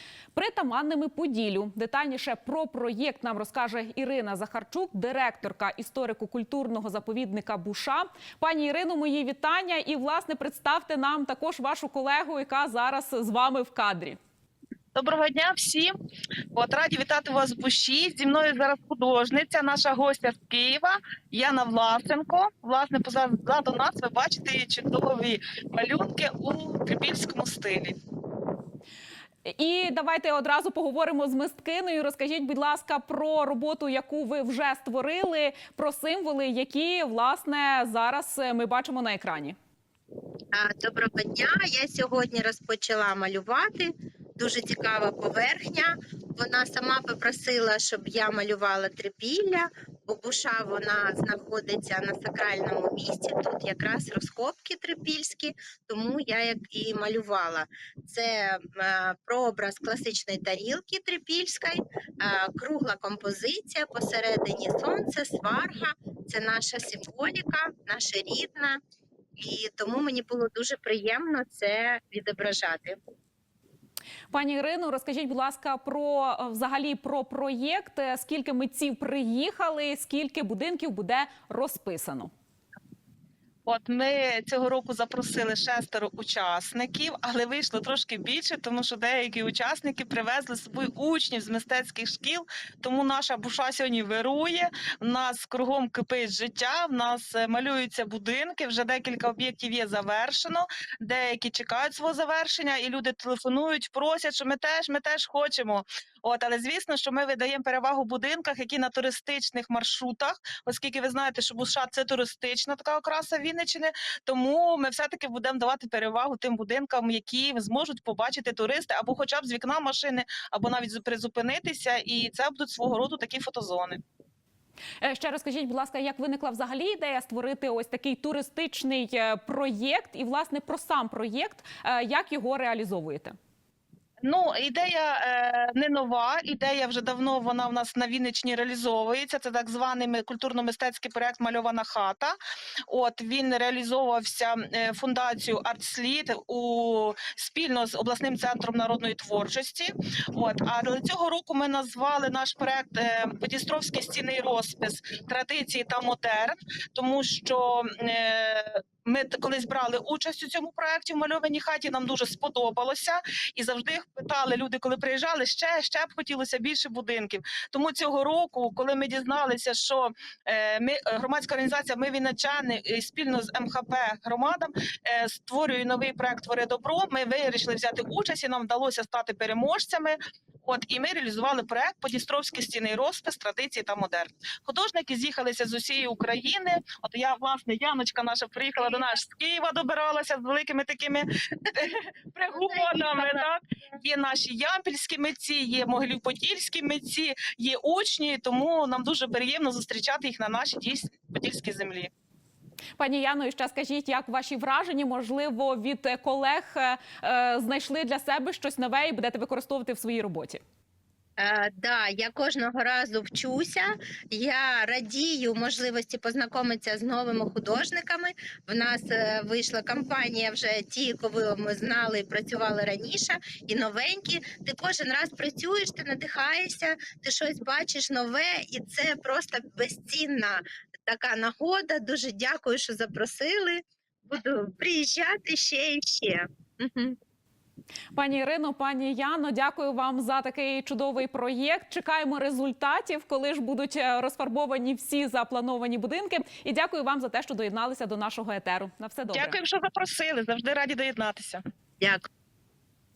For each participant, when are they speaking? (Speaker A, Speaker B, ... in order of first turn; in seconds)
Speaker A: 0.3-14.2, 29.4-39.5, 74.3-82.3, 125.0-133.3, 203.0-210.6, 238.1-249.6
Speaker B: 14.9-15.9, 16.5-27.9, 83.7-124.0, 134.2-142.3, 142.9-202.1, 249.3-251.6
Speaker C: 40.5-68.8, 69.4-73.0, 211.4-237.2